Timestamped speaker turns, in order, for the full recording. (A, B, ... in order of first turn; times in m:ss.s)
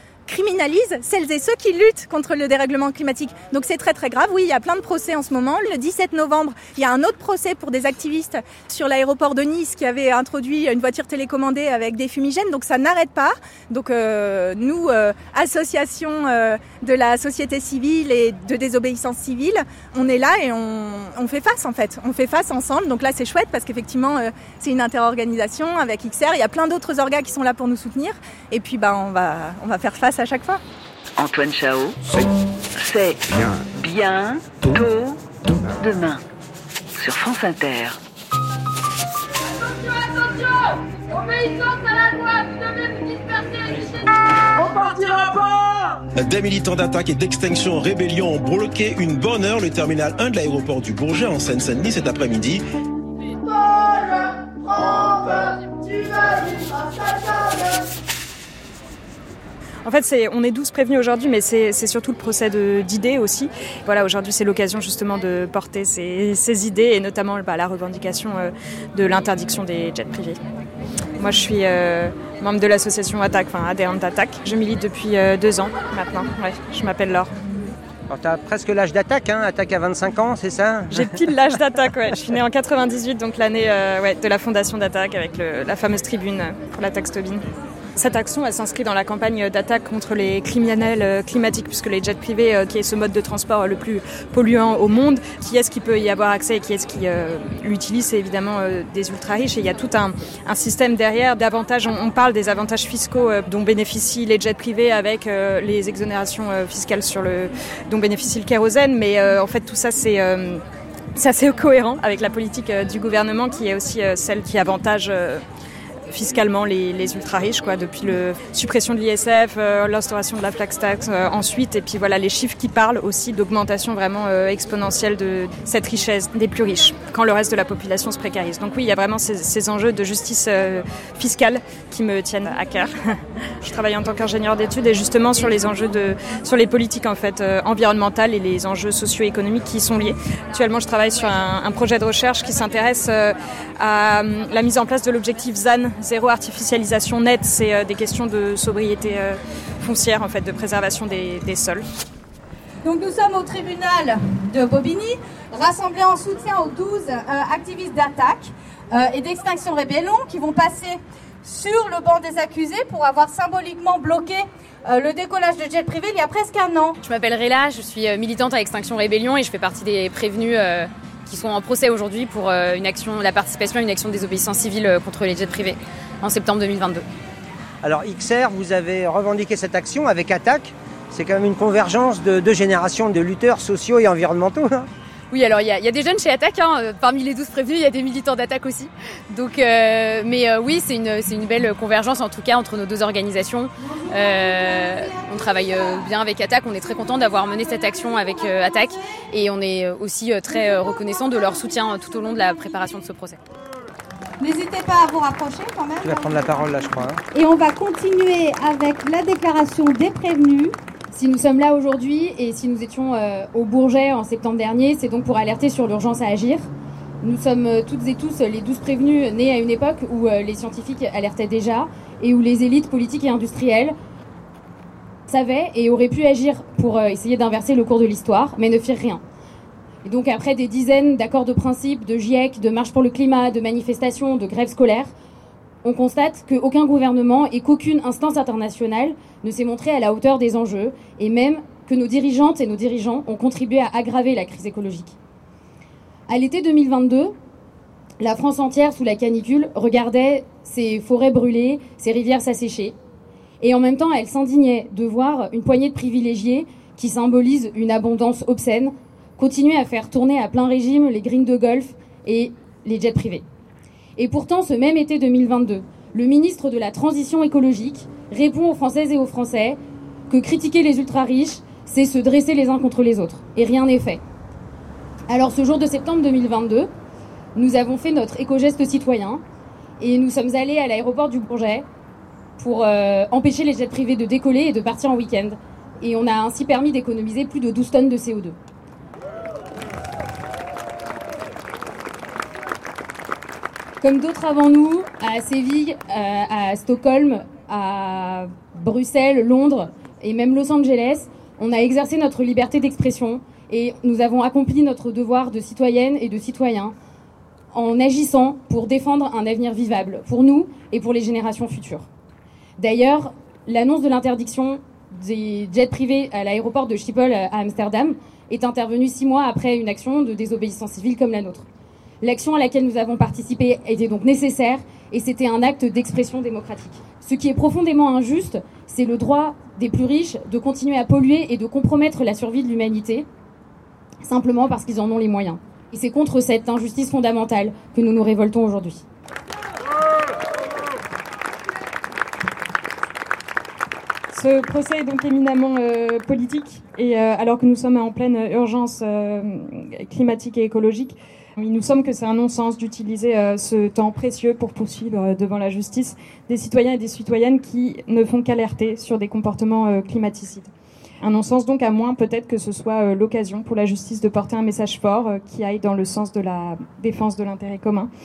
0:00.3-0:30.6 A
0:31.2-0:32.0 B
0:32.8-0:35.2 B
0:35.8-0:36.2 B
0:37.0-0:38.0 B
0:46.1-0:52.6 C
0:59.8-1:10.4 D
1:11.2-1:17.3 D
1:18.1-1:21.2 E
1:20.9-1:27.4 D
1:28.0-1:50.6 D
1:51.1-1:55.4 D
1:56.1-2:31.9 D
2:32.8-2:47.0 F
2:47.0-2:57.0 G
2:57.8-3:04.9 E
3:05.3-3:23.4 G
3:14.4-3:14.9 F
3:24.4-3:26.3 F
3:26.0-3:27.2 E
3:27.3-3:30.8 F
3:31.1-3:36.6 H
3:37.2-3:43.9 H
3:45.3-3:49.2 H
3:50.0-3:55.1 H
3:55.8-4:05.2 H
4:06.3-4:07.3 H
4:08.2-4:12.9 H
4:13.6-4:23.4 H
4:24.2-4:29.8 H
4:30.3-4:34.2 H
4:35.3-4:36.9 H
4:37.6-4:39.4 H
4:40.0-4:41.8 H
4:42.6-4:48.6 H
4:54.0-5:06.9 H
5:07.7-5:12.1 H
5:12.8-5:21.6 H
5:22.2-5:33.3 H
5:34.2-5:39.0 H
5:44.3-6:00.7 D
6:01.2-6:08.1 D